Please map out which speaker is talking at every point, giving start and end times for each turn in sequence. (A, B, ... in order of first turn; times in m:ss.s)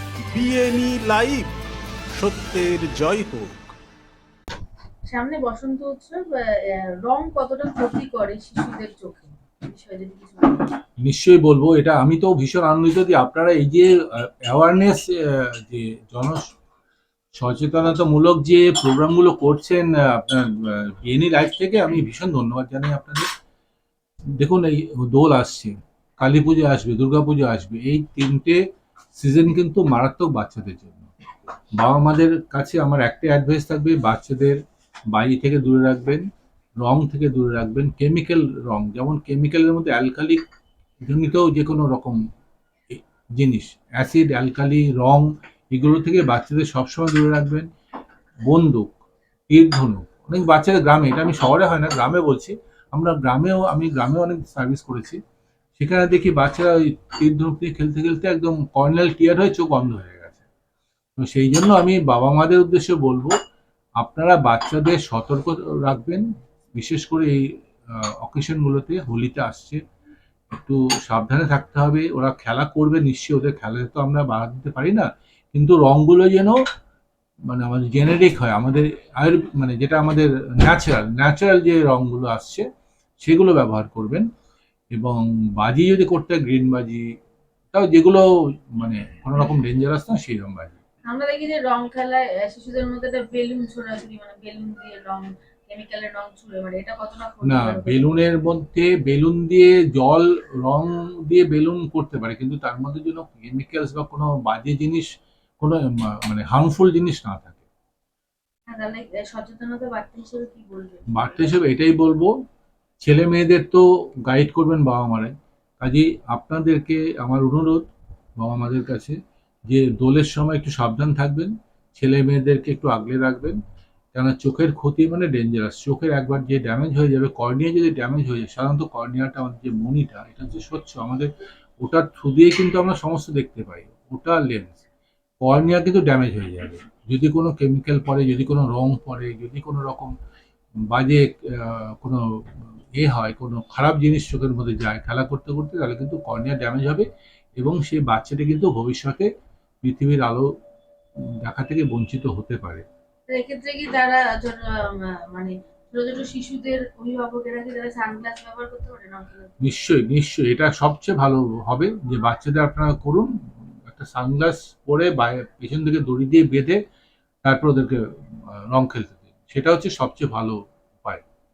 0:00.3-0:01.5 A
0:02.2-0:03.7 A
0:05.1-0:10.7 B
0:11.0-0:16.4 C
0:17.4-0:23.3 C
0:24.4-0:28.6 C
0:29.2-0:31.1 C
0:31.8-0:34.6 C
0:35.1-0:36.2 C
0:36.8-0:40.4 C
0:41.1-0:42.2 C
0:42.9-0:47.7 C
0:48.5-0:48.9 C
0:49.5-0:55.2 C
0:55.8-1:00.4 C
1:01.2-1:03.3 C
1:04.0-1:09.8 C
1:10.5-1:16.6 C
1:17.5-1:22.6 C
1:23.2-1:24.2 C
1:25.0-1:27.0 C
1:27.7-1:28.2 C
1:28.8-1:30.8 C
1:31.1-1:38.1 B
1:37.4-1:45.1 C
1:45.6-1:47.6 C
1:48.7-1:51.6 B
1:51.1-1:52.4 C
1:53.0-1:57.9 C
1:58.4-1:59.2 C
1:59.7-2:03.6 C
2:04.1-2:11.3 C
2:11.8-2:14.8 C
2:15.4-2:20.1 C
2:20.9-2:27.1 C
2:27.6-2:29.3 C
2:29.8-2:30.5 C
2:31.4-2:32.8 C
2:33.3-2:39.5 B
2:39.6-2:43.3 C
2:43.9-2:46.8 C
2:47.5-2:51.2 C